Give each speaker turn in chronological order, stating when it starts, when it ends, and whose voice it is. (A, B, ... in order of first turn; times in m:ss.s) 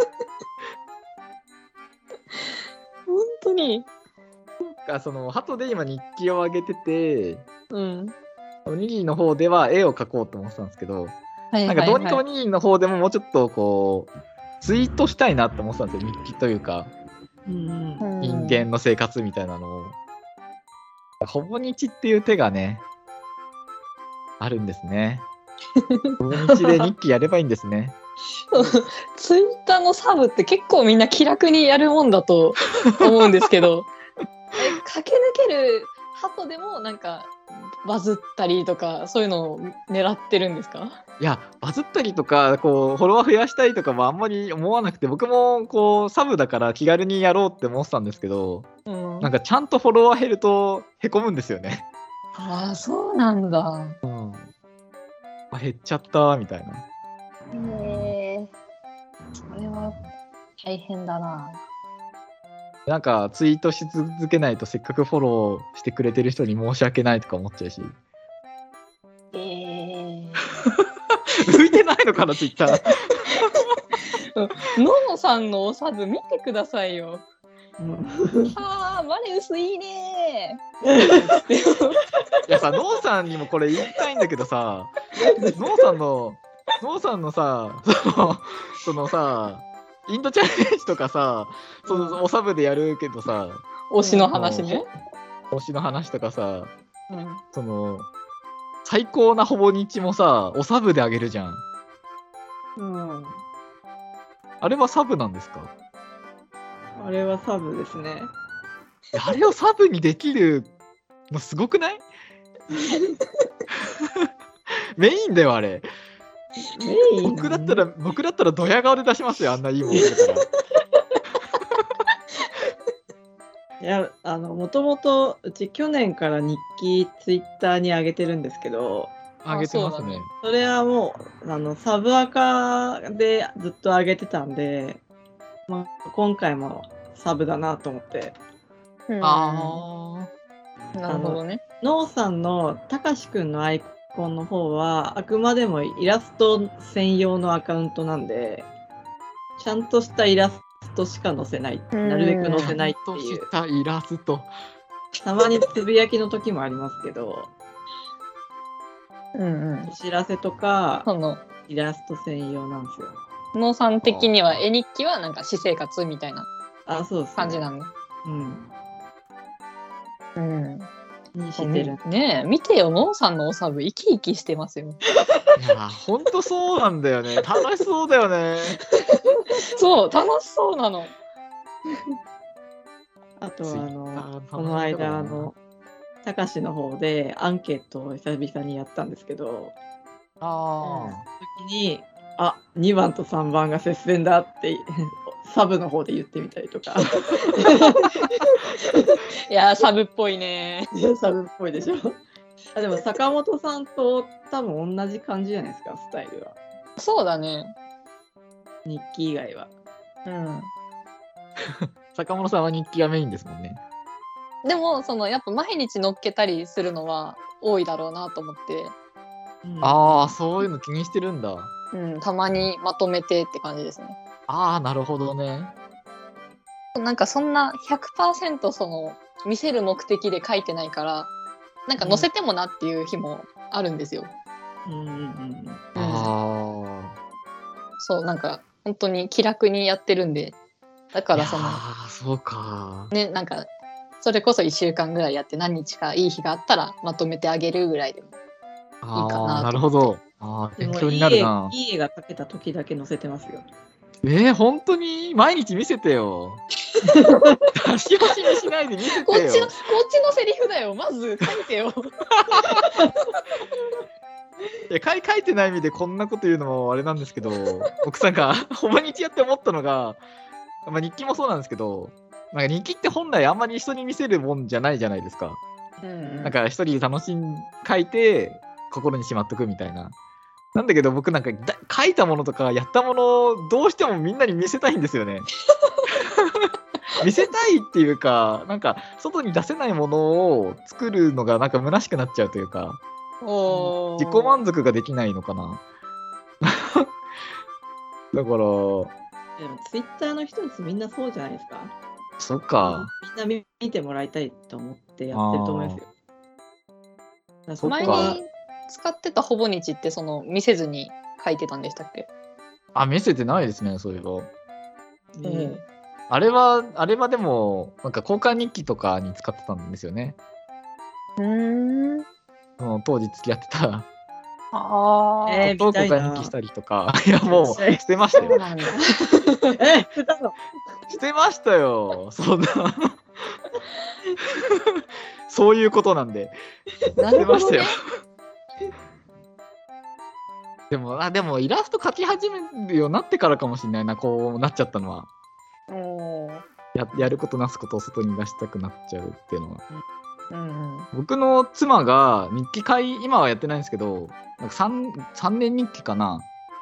0:03.1-0:03.9 A
0:04.6-0:07.4 B
0:07.7-0:08.1 A
0:08.6-0:16.9 B
0:11.5-0:12.2 A
0:17.5-0:18.1 C
0:18.0-0:18.6 A
0:18.2-0:20.0 B
0:21.2-0:22.8 B
0:24.4-0:25.3 B
0:25.8-0:26.7 A
0:26.2-0:28.0 B
0:28.5-0:33.9 A
0:32.8-0:33.2 B
0:34.6-0:37.3 A
0:37.8-0:41.0 A
0:41.2-0:48.7 B
0:48.8-0:49.3 A
0:49.2-0:51.8 B
0:52.3-0:54.0 A
0:54.0-0:54.5 B
0:55.5-0:56.8 B
0:57.5-0:58.5 A
0:59.4-1:00.0 A
1:00.6-1:01.6 A
1:02.9-1:07.9 B
1:09.3-1:10.4 A
1:11.4-1:13.7 B
1:14.3-1:17.2 A
1:17.8-1:18.5 C
1:18.5-1:22.0 A
1:20.8-1:21.3 C
1:22.5-1:24.9 B
1:25.2-1:25.6 C
1:25.5-1:33.7 B
1:31.9-1:32.2 A
1:33.9-1:34.8 A
1:34.0-1:34.3 C
1:34.3-1:34.8 B
1:35.5-1:36.7 B
1:37.1-1:37.4 A
1:37.5-1:38.1 B
1:38.8-1:41.6 B
1:42.8-1:43.4 C
1:44.6-1:45.7 B
1:47.0-1:48.3 C
1:49.1-1:50.7 B
1:51.3-1:52.0 B
1:54.0-1:54.3 B
1:55.0-1:55.8 B
1:56.6-1:57.8 C
1:57.2-2:00.5 B
2:03.8-2:09.2 C
2:09.4-2:10.3 B
2:09.5-2:10.2 A
2:10.4-2:15.0 C
2:15.7-2:18.4 C
2:19.1-2:19.8 A
2:19.2-2:20.3 B
2:20.9-2:21.6 A
2:21.1-2:28.7 C
2:29.6-2:33.5 C
2:31.9-2:32.7 A
2:32.6-2:34.5 B
2:35.2-2:37.5 C
2:39.3-2:39.9 A
2:39.8-2:41.1 C
2:41.0-2:41.4 A
2:41.7-2:43.2 C
2:43.5-2:46.5 A
2:44.0-2:44.6 B
2:46.9-2:47.6 C
2:47.4-2:47.9 A
2:48.2-2:48.7 C
2:50.4-2:50.9 A
2:51.3-2:52.0 C
2:51.6-2:55.0 A
2:55.6-2:58.8 B
2:59.5-3:01.1 A
3:03.4-3:05.6 C
3:03.6-3:05.5 B
3:06.2-3:09.7 C
3:10.4-3:11.2 B
3:10.8-3:18.4 C
3:19.5-3:20.9 A
3:20.9-3:22.2 C
3:22.7-3:26.6 C
3:27.0-3:27.7 A
3:28.8-3:29.7 C
3:30.2-3:30.7 A
3:31.6-3:33.8 B
3:34.6-3:38.9 A
3:39.6-3:40.4 C
3:39.8-3:41.7 B
3:41.9-3:44.2 A
3:44.5-3:45.7 B
3:47.0-3:51.3 A
3:51.9-3:54.3 A
3:54.8-3:55.8 C
3:56.0-3:56.3 A
3:56.0-3:57.1 B
3:58.0-4:00.6 A
4:01.1-4:01.8 A
4:01.3-4:03.1 B
4:03.1-4:03.7 A
4:04.2-4:08.4 A
4:09.0-4:11.7 B
4:09.1-4:09.9 A
4:10.8-4:13.6 C
4:14.2-4:16.6 B
4:17.1-4:17.6 C
4:17.7-4:19.7 B
4:19.2-4:22.1 A
4:22.4-4:22.9 B
4:24.9-4:30.2 B
4:30.8-4:35.6 B
4:36.0-4:36.5 A
4:36.4-4:40.1 B
4:40.7-4:45.5 B
4:46.2-4:46.7 B
4:47.2-4:53.0 B
4:53.4-4:54.6 A
4:54.2-4:55.8 B
4:56.6-4:57.1 B
4:58.3-4:59.1 B
4:59.6-5:01.9 C
5:02.4-5:03.1 B
5:02.8-5:06.1 C
5:05.3-5:06.0 B
5:07.7-5:08.4 C
5:07.8-5:08.4 B
5:07.8-5:12.3 A
5:12.9-5:14.5 B
5:15.4-5:15.8 C
5:15.4-5:15.8 A
5:16.3-5:20.4 B
5:21.4-5:22.2 A
5:22.8-5:24.1 B
5:24.7-5:25.7 A
5:25.4-5:26.5 C
5:25.6-5:28.6 B
5:27.4-5:28.6 C
5:28.4-5:29.8 A
5:29.7-5:30.5 C
5:31.1-5:33.2 B
5:34.7-5:36.5 B
5:37.2-5:37.9 A
5:37.3-5:37.9 B
5:40.9-5:45.3 B
5:45.9-5:46.6 A
5:46.9-5:49.8 B
5:50.5-5:51.1 A
5:51.1-5:56.5 B